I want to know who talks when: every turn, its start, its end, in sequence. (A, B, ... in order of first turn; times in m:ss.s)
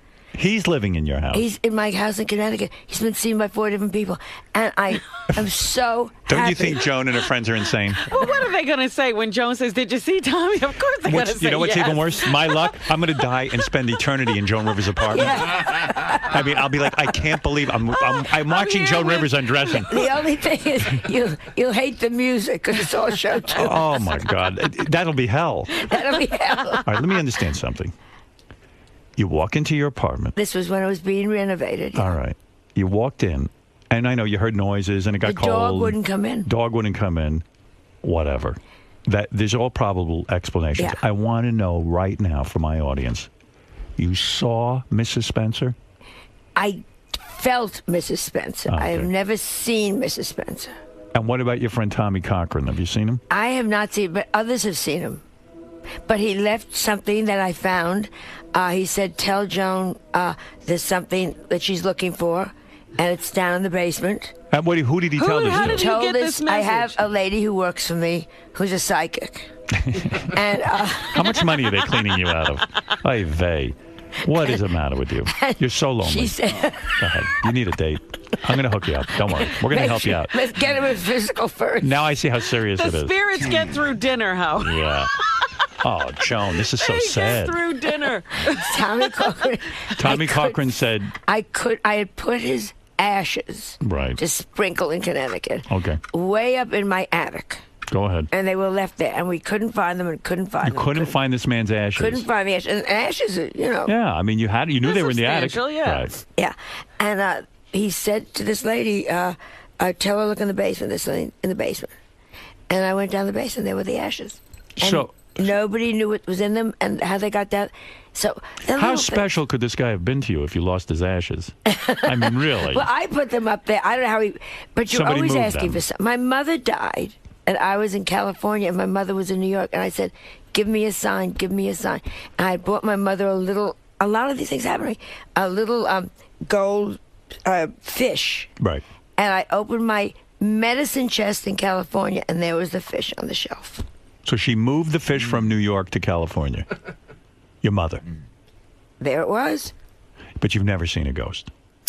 0:00.3-0:01.5 A
0:01.3-0:06.9 B
0:06.3-0:08.1 A
0:08.0-0:13.4 C
0:11.0-0:20.2 A
0:15.1-0:16.3 B
0:17.9-0:19.9 C
0:19.9-0:24.0 B
0:23.5-0:25.9 A
0:25.7-0:26.9 B
0:26.8-0:27.9 A
0:29.2-0:30.4 A
0:30.4-0:32.1 B
0:32.0-0:37.4 A
0:35.2-0:36.5 B
0:38.0-0:43.3 A
0:44.0-0:45.8 A
0:46.6-0:50.7 B
0:48.7-0:49.1 A
0:51.1-0:53.2 A
0:53.3-0:55.2 B
0:56.1-1:04.3 B
1:04.5-1:05.9 A
1:05.2-1:07.0 C
1:05.4-1:09.5 B
1:09.8-1:10.4 A
1:10.1-1:11.5 B
1:11.1-1:16.4 A
1:15.3-1:17.4 B
1:17.0-1:20.5 A
1:19.4-1:22.0 B
1:21.8-1:23.2 A
1:22.8-1:25.7 C
1:24.6-1:25.1 A
1:25.8-1:27.6 A
1:26.6-1:29.4 C
1:28.5-1:30.7 B
1:30.0-1:31.1 A
1:31.2-1:37.6 B
1:33.8-1:34.2 A
1:35.7-1:36.0 A
1:37.9-1:38.3 A
1:38.3-1:41.2 B
1:40.6-1:42.3 A
1:42.0-1:43.9 B
1:43.9-1:46.2 A
1:44.8-1:46.1 C
1:46.4-1:51.9 B
1:52.7-1:59.3 B
1:54.8-1:55.1 A
1:58.7-2:02.9 A
2:01.7-2:18.5 B
2:04.9-2:05.8 A
2:18.6-2:18.8 A
2:19.2-2:23.8 B
2:24.2-2:26.7 A
2:27.6-2:28.0 A
2:29.0-2:29.7 B
2:30.4-2:31.5 A